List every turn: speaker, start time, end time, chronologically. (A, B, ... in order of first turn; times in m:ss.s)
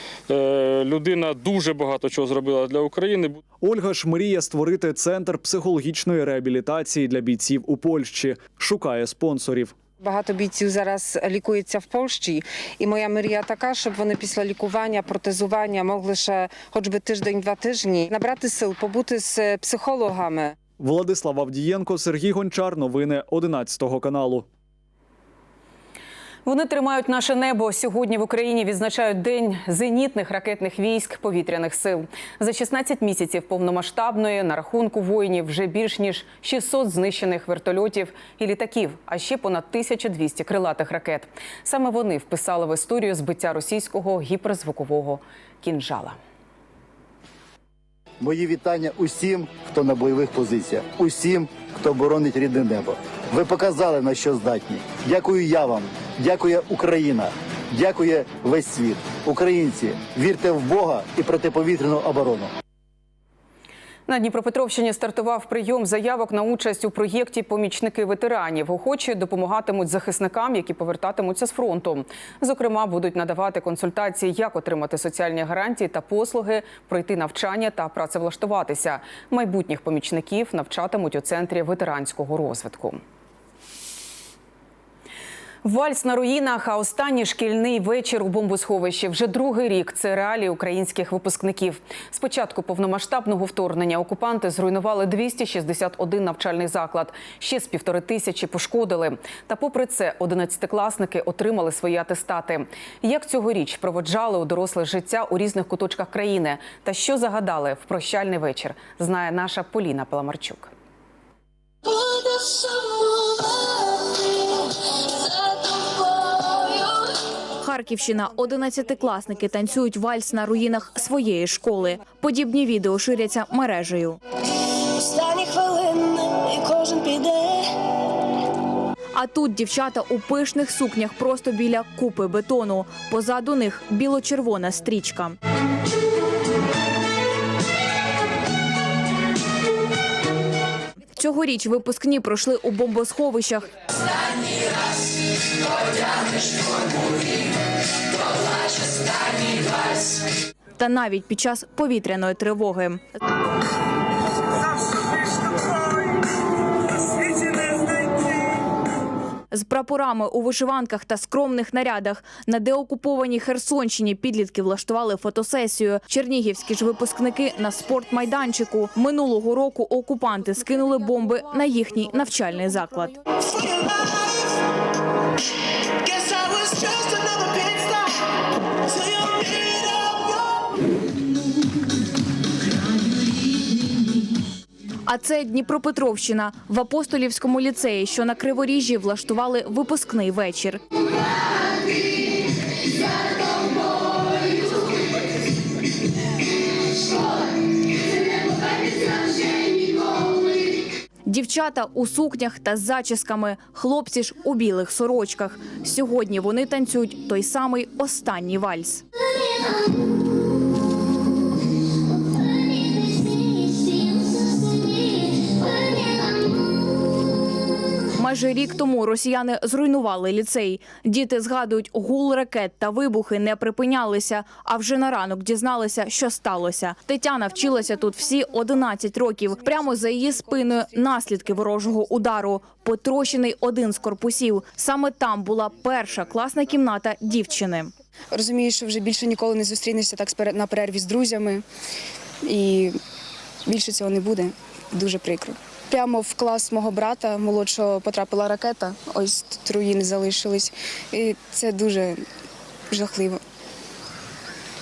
0:00.3-0:03.4 A
0:03.6-0:09.7 B
0:10.0-0:20.5 C
0:20.8-0:24.5 B
0:26.4-0:46.2 D
0:48.2-1:02.5 E
1:04.1-1:23.0 D
1:25.6-1:50.7 D
1:52.1-1:53.6 F
1:55.3-1:56.9 F
1:57.6-2:04.2 G
2:05.0-2:07.7 F
2:09.2-2:15.4 G
2:21.2-2:23.7 G
2:30.8-2:33.0 G
2:39.5-2:53.2 G
2:56.3-2:57.1 F
3:05.1-3:10.8 G
3:21.3-3:29.0 G
3:38.2-3:57.9 G
3:58.3-4:01.6 H
4:02.5-4:02.9 H
4:03.7-4:12.2 H
4:12.9-4:13.4 H